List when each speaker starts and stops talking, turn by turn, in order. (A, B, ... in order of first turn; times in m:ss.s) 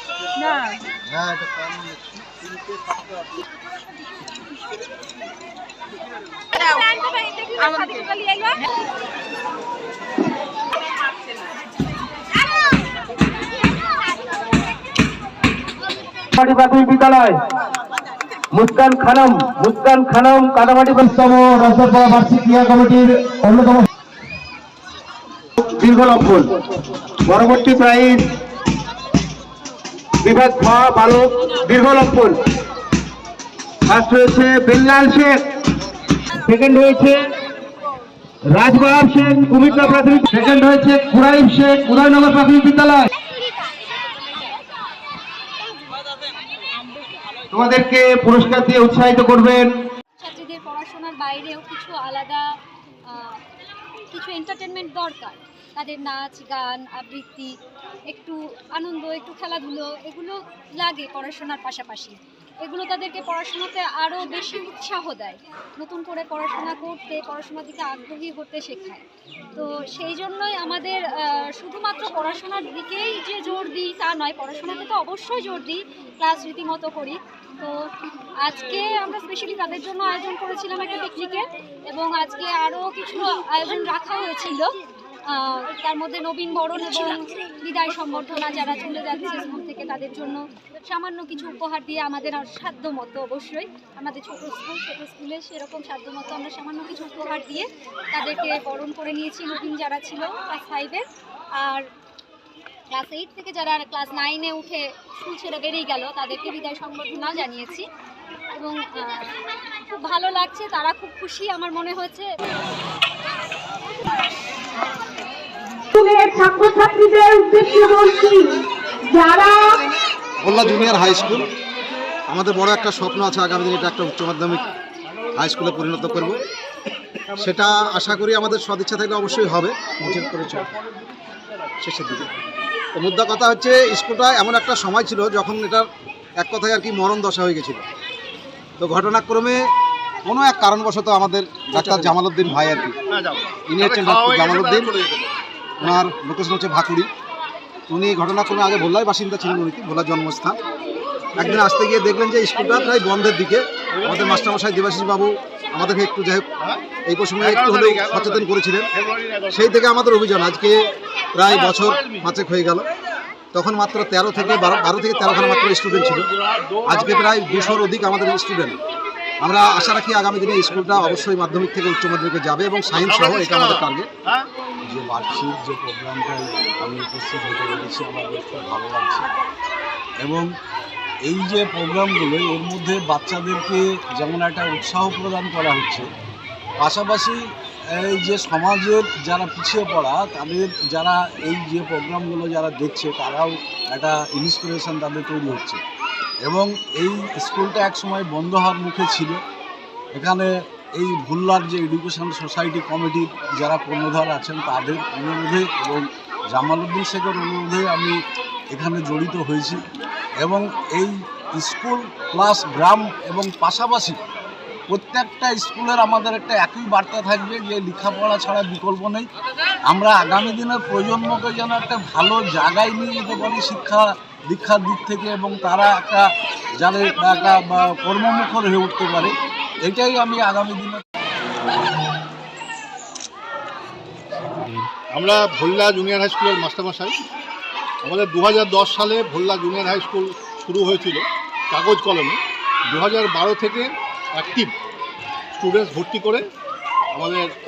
0:01.0-0:02.5 A
0:06.6-0:08.6 B
0:16.4-0:17.4 C
0:18.5-0:23.8 C
0:25.7-0:26.5 C
0:27.2-0:28.2 C
0:30.2-0:32.4 C
0:33.8-0:35.4 C
0:36.5-0:37.3 C
0:38.5-0:43.1 C
0:47.5-0:49.7 C
0:50.2-0:52.4 B
0:53.1-0:53.4 B
0:54.1-0:57.5 B
0:58.1-1:09.0 B
1:09.6-1:17.9 B
1:18.4-1:24.7 B
1:25.3-1:41.0 B
1:41.6-1:41.9 B
1:42.9-1:47.8 B
1:48.6-1:49.4 B
1:49.9-1:52.3 B
1:55.9-1:59.8 D
2:00.4-2:01.5 A
2:02.3-2:04.6 A
2:05.3-2:06.4 A
2:07.4-2:10.7 A
2:11.8-2:12.3 A
2:12.9-2:15.9 A
2:16.4-2:17.8 A
2:18.8-2:19.6 A
2:20.2-2:23.0 A
2:23.1-2:25.4 E
2:23.7-2:24.9 A
2:25.8-2:27.1 A
2:27.9-2:30.6 A
2:31.3-2:36.5 A
2:34.0-2:34.4 E
2:37.0-2:38.9 A
2:37.4-2:38.5 E
2:39.0-2:39.4 E
2:39.5-2:42.9 A
2:43.5-2:46.3 A
2:46.1-2:47.2 E
2:46.8-2:48.8 A
2:49.4-2:54.1 A
2:53.0-2:54.5 E
2:54.8-2:59.3 F
3:00.2-3:00.5 F
3:01.2-3:06.0 F
3:06.8-3:07.4 F
3:07.9-3:15.8 F
3:16.4-3:19.4 F
3:20.1-3:28.2 F
3:28.7-3:29.8 F
3:30.4-3:34.2 F
3:34.9-3:39.3 F
3:39.9-3:46.3 F
3:46.8-3:51.0 F
3:55.1-3:57.2 E
3:58.0-4:04.7 E
4:05.6-4:06.5 E
4:07.1-4:07.5 E